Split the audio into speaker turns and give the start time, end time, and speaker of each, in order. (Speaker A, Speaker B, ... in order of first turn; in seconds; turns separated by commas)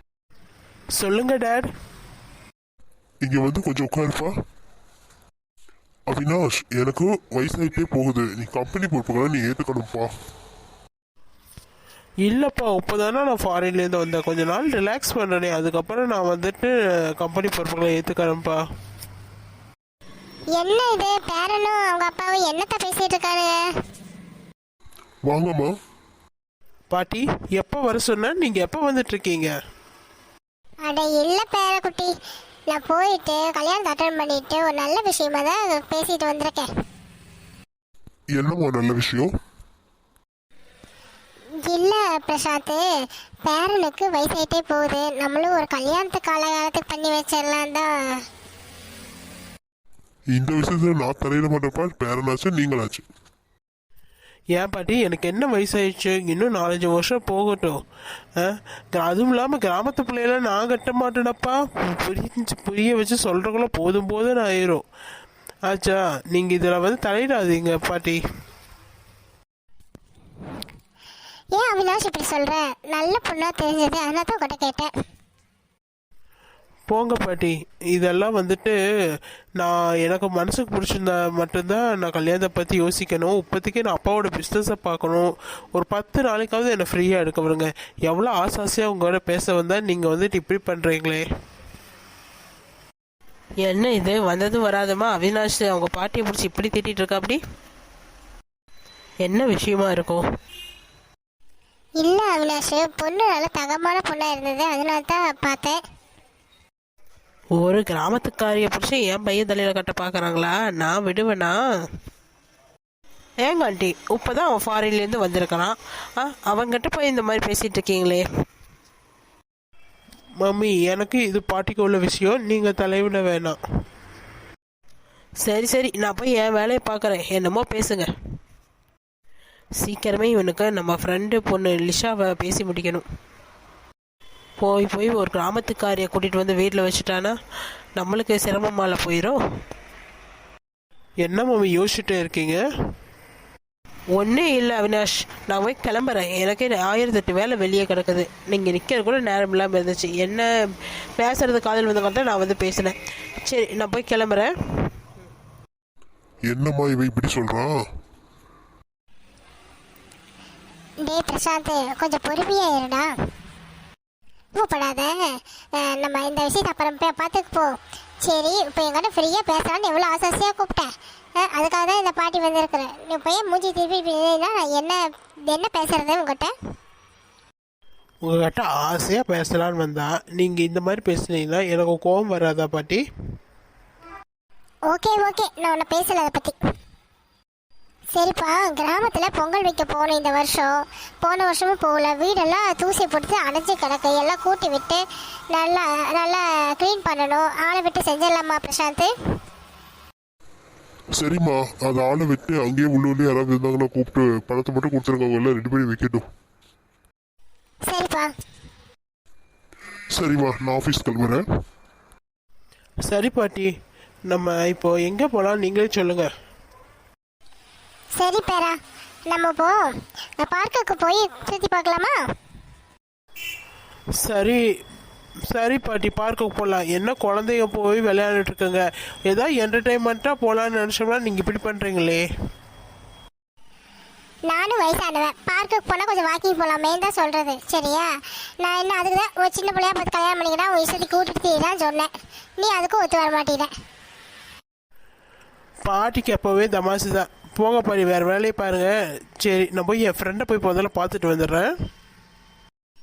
Speaker A: 1.0-1.7, Speaker B: 3.2-4.3, Speaker B: 6.1-10.1, Speaker A: 12.2-18.6, Speaker C: 20.6-23.6, Speaker B: 25.2-25.7, Speaker A: 26.9-29.5, Speaker C: 30.9-32.1, Speaker C: 32.7-36.7, Speaker B: 38.3-39.3, Speaker C: 41.6-42.8, Speaker C: 43.4-48.2, Speaker B: 50.3-53.0, Speaker A: 54.6-57.8, Speaker A: 58.4-64.8, Speaker A: 65.7-68.2, Speaker C: 71.5-74.9, Speaker A: 76.9-78.7, Speaker A: 79.6-91.3, Speaker D: 93.6-97.4, Speaker D: 99.2-100.2, Speaker C: 102.0-105.8, Speaker D: 107.6-111.6, Speaker D: 113.5-118.3, Speaker A: 120.4-123.6, Speaker D: 125.4-128.1, Speaker D: 129.8-133.0, Speaker D: 134.6-137.3, Speaker D: 138.0-139.4, Speaker A: 141.2-142.6, Speaker D: 144.2-150.5, Speaker D: 151.2-152.9, Speaker D: 153.4-154.9, Speaker B: 156.5-157.8, Speaker C: 161.0-163.1, Speaker C: 164.6-176.5, Speaker A: 178.2-183.0, Speaker C: 184.9-186.6, Speaker C: 188.1-195.0, Speaker C: 195.5-199.1, Speaker B: 201.2-206.2, Speaker C: 207.9-208.3, Speaker B: 210.2-211.4, Speaker A: 213.1-213.7, Speaker A: 214.3-216.3, Speaker C: 218.2-218.8, Speaker C: 219.3-222.2, Speaker A: 224.2-224.6, Speaker A: 225.5-232.2, Speaker C: 234.5-243.7, Speaker A: 245.9-251.7